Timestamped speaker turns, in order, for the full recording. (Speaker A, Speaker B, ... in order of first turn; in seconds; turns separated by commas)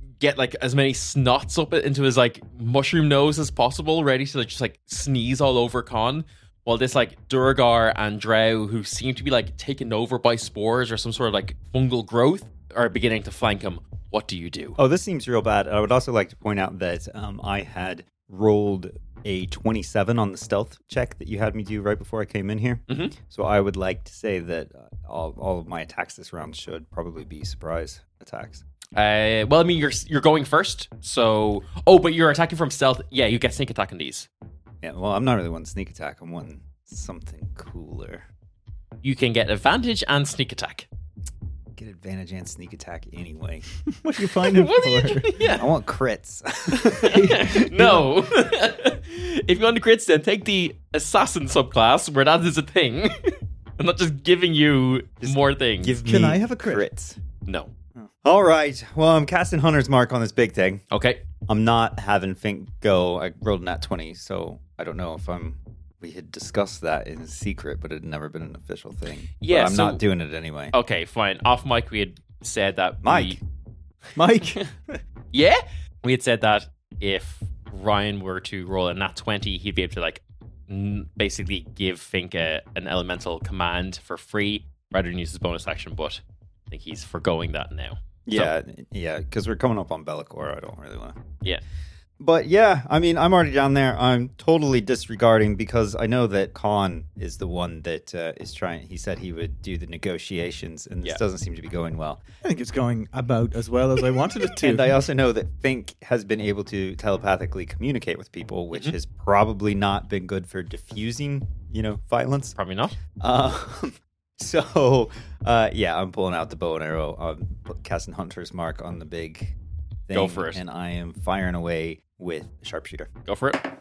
Speaker A: 0.2-14.8, Speaker B: 14.8-28.6, Speaker A: 22.9-23.1, Speaker A: 28.9-34.3, Speaker B: 34.8-38.2, Speaker A: 39.0-40.9, Speaker B: 41.8-43.6, Speaker C: 43.9-45.4, Speaker A: 44.5-45.7, Speaker B: 45.6-47.5, Speaker A: 46.7-56.0, Speaker C: 47.1-48.0, Speaker B: 55.2-57.2, Speaker C: 56.0-56.8, Speaker A: 57.4-57.7, Speaker B: 58.2-60.8, Speaker A: 60.9-61.2, Speaker B: 61.5-70.7, Speaker A: 69.4-70.0, Speaker A: 70.7-73.4, Speaker B: 73.0-73.4, Speaker C: 74.1-75.0, Speaker A: 75.3-88.5, Speaker B: 88.2-91.2, Speaker B: 92.2-102.2, Speaker C: 102.4-104.9, Speaker B: 104.6-112.5, Speaker A: 112.5-113.0, Speaker B: 113.2-119.5, Speaker B: 120.1-123.1, Speaker A: 120.1-120.6, Speaker A: 123.2-123.7